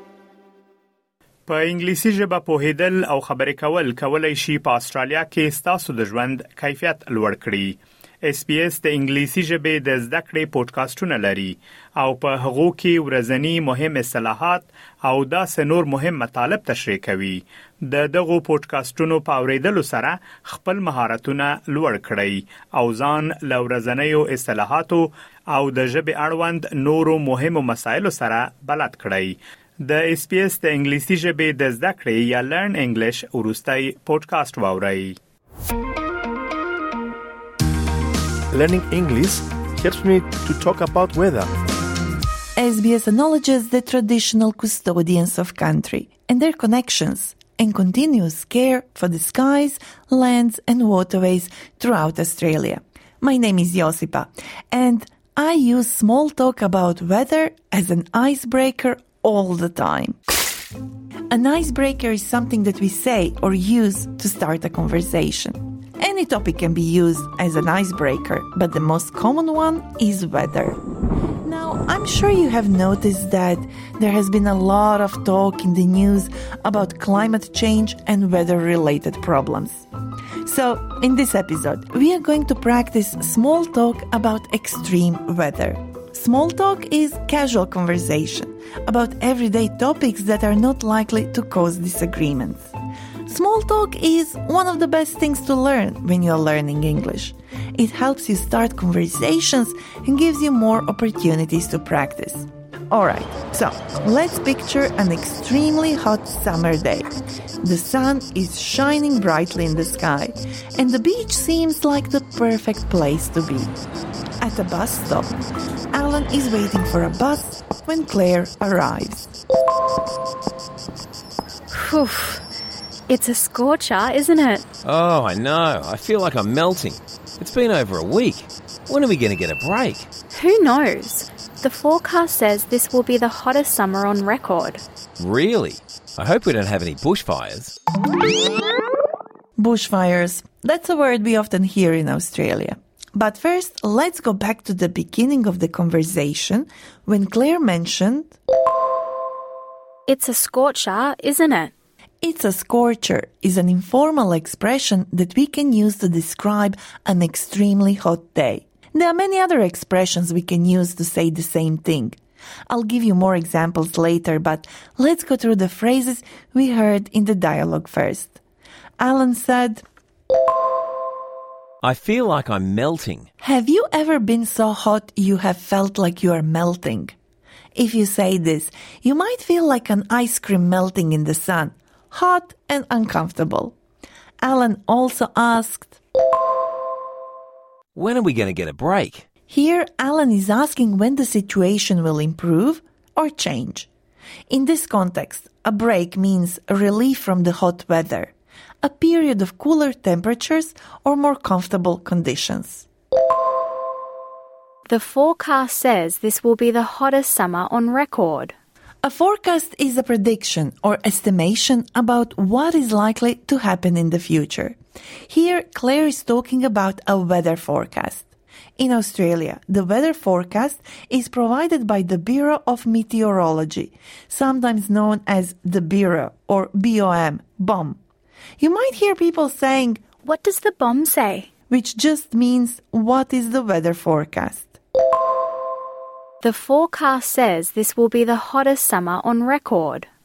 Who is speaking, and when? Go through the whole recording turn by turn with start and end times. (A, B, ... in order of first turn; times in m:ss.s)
0:01.5-0:35.2 A
0:38.5-0:41.5 B
0:42.6-1:00.2 C
1:01.3-1:10.8 C
1:11.4-1:19.8 C
1:20.4-1:32.7 C
1:33.3-1:47.1 C
1:47.6-1:53.7 C
1:54.4-1:55.4 C
1:55.9-1:59.3 C
2:01.7-2:02.4 D
2:03.1-2:04.6 D
2:04.8-2:10.1 E
2:10.3-2:14.8 D
2:15.2-2:17.7 E
2:19.6-2:28.4 C
2:30.1-2:31.7 D
2:32.2-2:42.2 C
2:42.7-2:48.4 C
2:49.0-2:49.8 C
2:51.8-2:53.3 E
2:53.4-2:57.1 C
2:57.8-3:03.7 C
3:04.4-3:06.0 C
3:07.9-3:09.3 E
3:09.5-3:13.9 C
3:14.5-3:22.9 C
3:24.9-3:28.5 D
3:29.0-3:34.7 C
3:35.3-3:38.3 C
3:38.8-3:48.0 C
3:48.6-3:50.0 C
3:50.2-3:51.5 D
3:51.7-3:54.8 C
3:56.4-4:00.0 D